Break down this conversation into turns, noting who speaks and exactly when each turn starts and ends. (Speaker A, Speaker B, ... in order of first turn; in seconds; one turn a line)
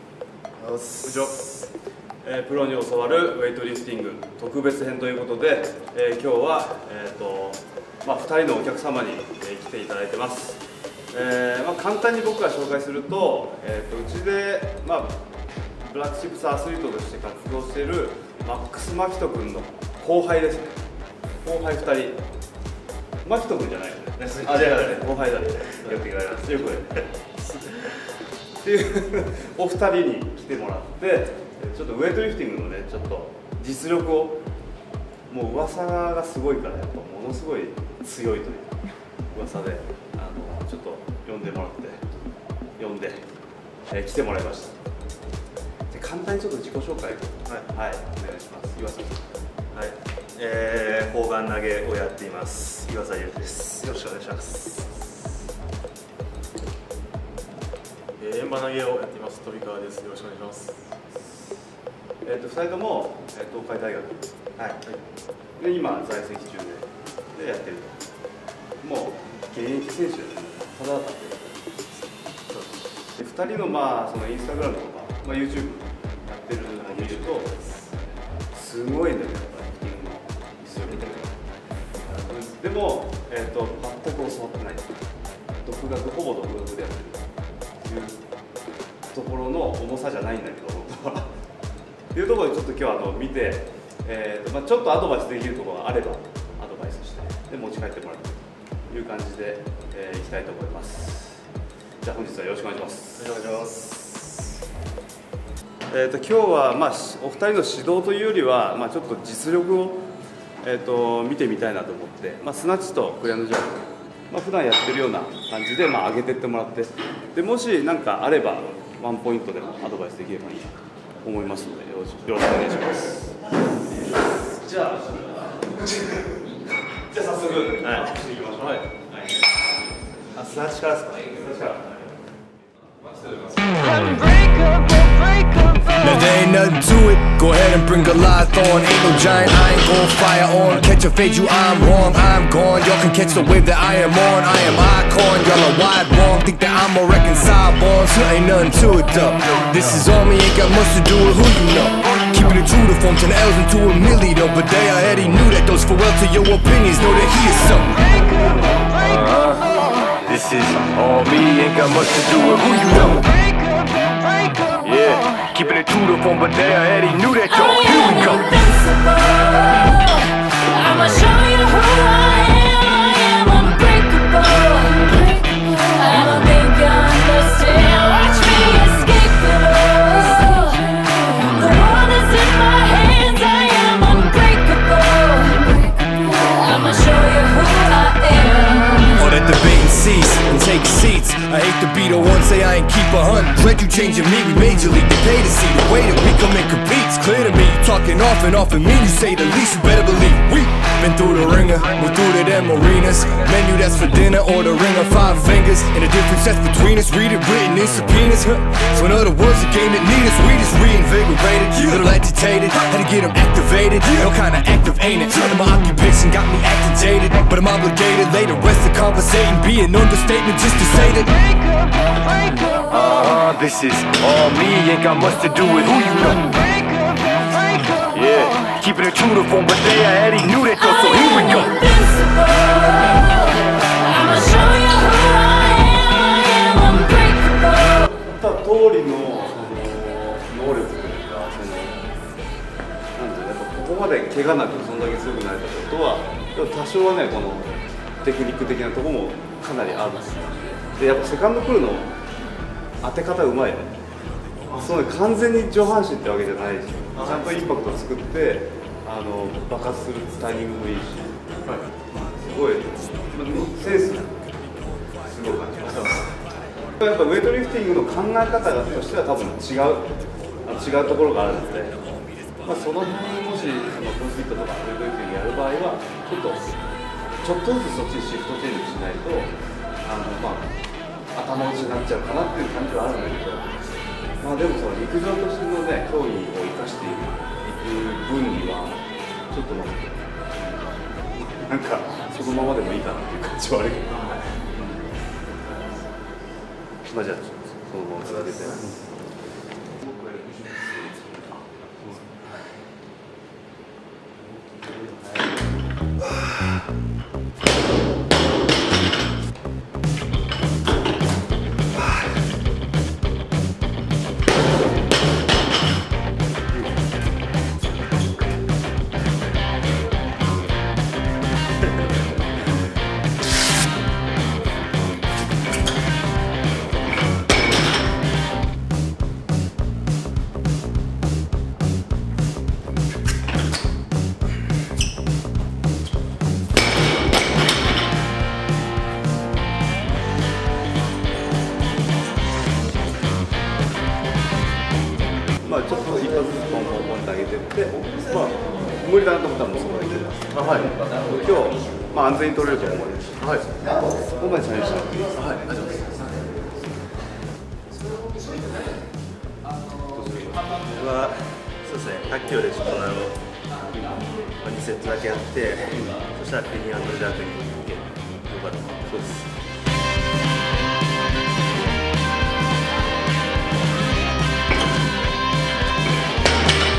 Speaker A: 0.6-1.5
Speaker B: 2.2-15.2
Speaker B: 15.8-20.9
Speaker B: 21.4-22.2
Speaker B: 23.2-27.0
Speaker A: 24.2-27.0
Speaker B: 28.6-34.4
Speaker B: 35.3-38.8
Speaker B: 39.3-42.2
Speaker B: 42.8-43.3
Speaker B: 43.9-44.8
Speaker B: 45.9-49.3
Speaker A: 49.7-55.0
Speaker C: 58.2-60.9
Speaker B: 62.2-64.3
Speaker A: 64.6-64.8
Speaker B: 65.6-68.0
Speaker B: 68.8-71.7
Speaker B: 73.1-77.5
Speaker A: 76.8-77.8
Speaker B: 78.5-81.5
Speaker A: 80.9-81.2
Speaker B: 82.1-85.0
Speaker B: 85.6-87.3
Speaker B: 87.8-88.2
Speaker B: 89.1-91.3
Speaker B: 92.1-101.5
Speaker B: 102.0-103.3
Speaker A: 103.2-104.6
Speaker B: 105.9-110.1
Speaker B: 110.6-123.4
Speaker B: 123.9-126.5
Speaker B: 127.1-129.4
Speaker A: 127.8-128.1
Speaker A: 130.3-131.8
Speaker B: 131.4-132.0
Speaker D: 136.0-158.0
Speaker D: 159.0-163.3
Speaker D: 164.7-168.7
Speaker E: 167.9-189.2
Speaker D: 189.2-221.3
Speaker D: 222.9-226.6
Speaker D: 228.1-231.8
Speaker E: 231.0-237.6
Speaker B: 237.8-242.0
Speaker B: 243.2-252.1
Speaker B: 253.0-253.9
Speaker C: 254.7-254.9
Speaker B: 254.8-261.4
Speaker C: 257.2-257.5
Speaker B: 262.1-264.5
Speaker B: 265.2-266.3
Speaker C: 265.8-266.3
Speaker B: 267.0-272.0
Speaker B: 272.6-276.7
Speaker B: 277.4-280.7
Speaker B: 281.3-283.8
Speaker B: 284.4-295.1
Speaker B: 297.1-299.0
Speaker A: 298.4-298.9
Speaker A: 300.1-301.1
Speaker B: 301.2-302.4
Speaker B: 304.4-305.6
Speaker B: 345.6-355.3
Speaker C: 350.5-351.1
Speaker C: 353.4-353.7
Speaker C: 355.3-356.4
Speaker B: 359.9-360.8
Speaker A: 360.8-363.4
Speaker B: 363.9-364.3
Speaker A: 364.4-369.2
Speaker B: 369.0-369.5